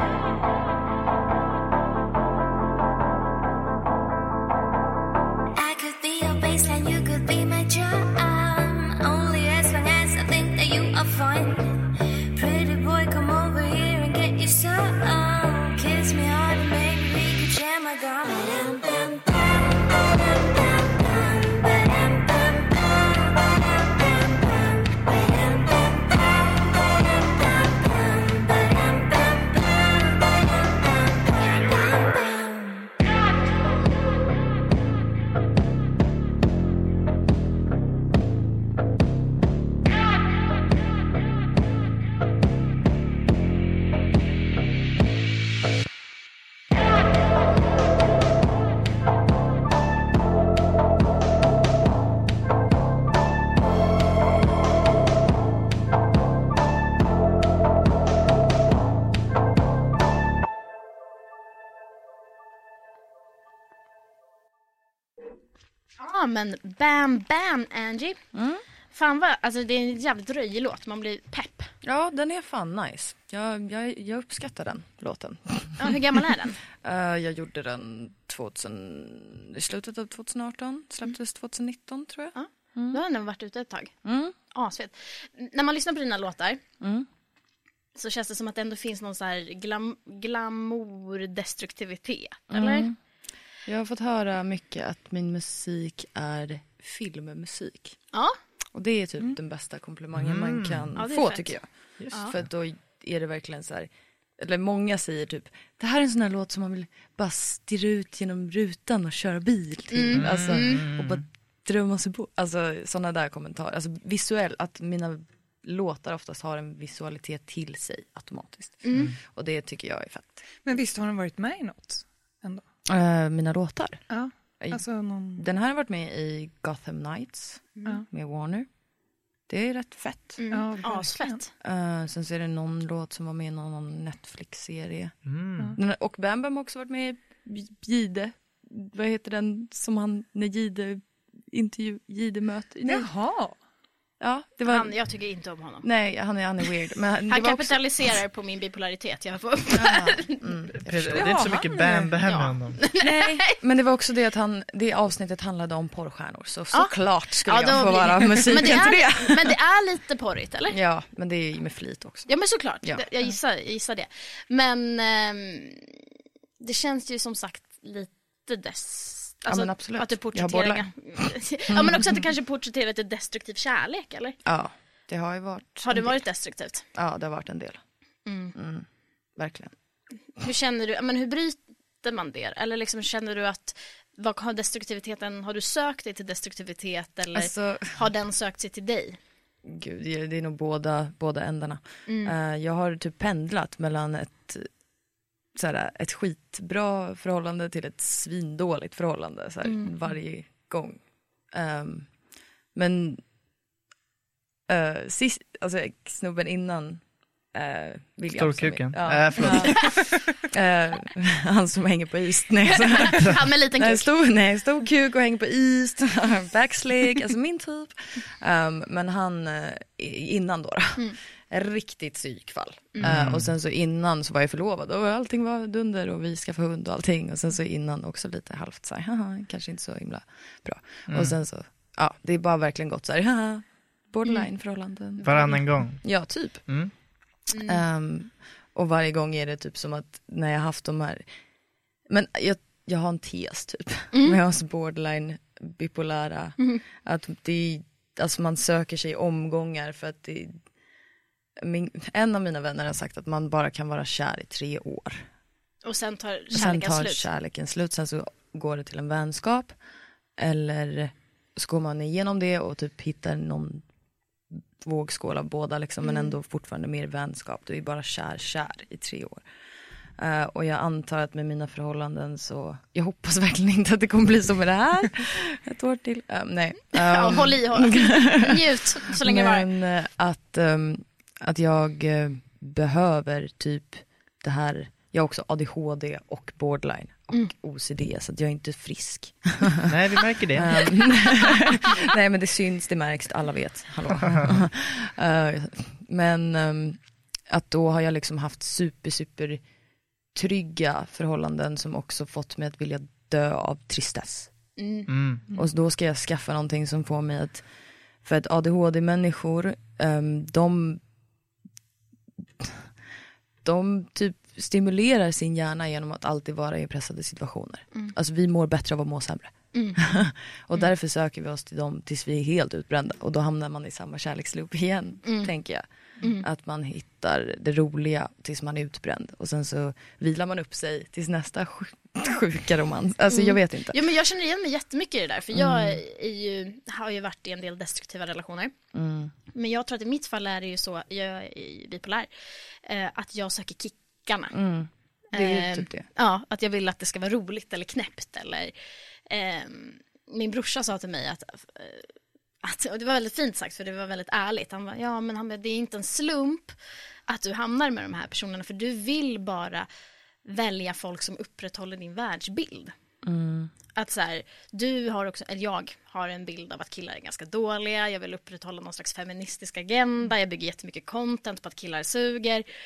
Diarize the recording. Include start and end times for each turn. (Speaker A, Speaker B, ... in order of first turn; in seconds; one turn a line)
Speaker A: 5.6-32.9
Speaker B: 66.0-68.2
Speaker C: 68.3-68.6
Speaker B: 68.9-71.7
Speaker C: 71.8-76.2
Speaker B: 75.8-76.6
Speaker C: 76.8-83.0
Speaker B: 82.3-83.9
Speaker C: 84.0-84.3
Speaker B: 84.5-86.6
Speaker C: 86.8-87.1
Speaker B: 88.0-92.9
Speaker C: 92.5-93.0
Speaker C: 93.7-98.0
Speaker C: 98.7-120.5
Speaker D: 100.1-100.9
Speaker B: 101.0-101.6
Speaker D: 102.0-102.4
Speaker B: 109.9-110.9
Speaker D: 110.1-111.2
Speaker B: 118.8-119.1
Speaker E: 120.7-122.7
Speaker C: 122.9-124.0
Speaker E: 124.1-125.5
Speaker C: 125.4-128.7
Speaker C: 129.5-130.4
Speaker B: 130.4-131.5
Speaker E: 130.5-131.4
Speaker C: 131.6-135.2
Speaker D: 135.3-135.8
Speaker C: 135.7-143.1
Speaker E: 142.8-143.6
Speaker C: 144.2-145.0
Speaker B: 144.7-145.9
Speaker C: 145.8-147.8
Speaker B: 147.3-150.5
Speaker C: 149.7-151.4
Speaker D: 150.8-152.8
Speaker E: 151.1-152.1
Speaker B: 152.2-153.5
Speaker C: 153.0-159.6
Speaker B: 157.4-160.8
Speaker C: 160.7-162.3
Speaker B: 162.3-165.9
Speaker B: 166.6-174.4
Speaker C: 169.5-172.3
Speaker C: 174.4-176.2
Speaker B: 175.8-176.8
Speaker C: 176.9-177.8
Speaker B: 178.3-178.6
Speaker C: 178.6-178.9
Speaker C: 179.4-179.7
Speaker B: 180.4-189.2
Speaker C: 187.3-188.1
Speaker C: 189.6-194.7
Speaker B: 192.1-192.3
Speaker C: 195.6-202.1
Speaker B: 199.6-199.9
Speaker C: 202.7-203.2
Speaker C: 204.7-236.7
Speaker D: 208.4-209.8
Speaker B: 212.7-214.1
Speaker D: 223.0-223.5
Speaker D: 231.1-231.4
Speaker B: 235.2-235.6
Speaker D: 235.2-236.0
Speaker D: 236.7-236.9
Speaker B: 237.5-237.8
Speaker C: 237.5-241.2
Speaker C: 242.1-250.6
Speaker B: 244.1-244.4
Speaker C: 251.6-255.3
Speaker B: 255.8-257.3
Speaker C: 256.5-259.8
Speaker C: 260.4-263.9
Speaker C: 264.8-269.4
Speaker B: 266.0-266.3
Speaker C: 270.2-289.9
Speaker B: 277.0-279.7
Speaker D: 289.9-290.8
Speaker C: 290.5-299.6
Speaker C: 300.3-304.5
Speaker B: 304.8-305.1
Speaker D: 305.1-305.4
Speaker C: 305.5-307.6
Speaker C: 308.2-311.0
Speaker C: 312.6-312.9
Speaker C: 313.6-334.1
Speaker B: 319.7-320.0
Speaker B: 325.2-325.5
Speaker B: 326.2-326.5
Speaker B: 333.3-338.7
Speaker C: 335.5-336.0
Speaker C: 338.9-339.3
Speaker B: 339.5-342.3
Speaker B: 342.9-344.6
Speaker C: 344.5-346.1
Speaker B: 345.3-348.7
Speaker B: 349.3-352.1
Speaker B: 352.6-356.7
Speaker B: 357.3-359.9
Speaker B: 360.4-362.9
Speaker C: 363.2-363.7
Speaker B: 363.9-372.6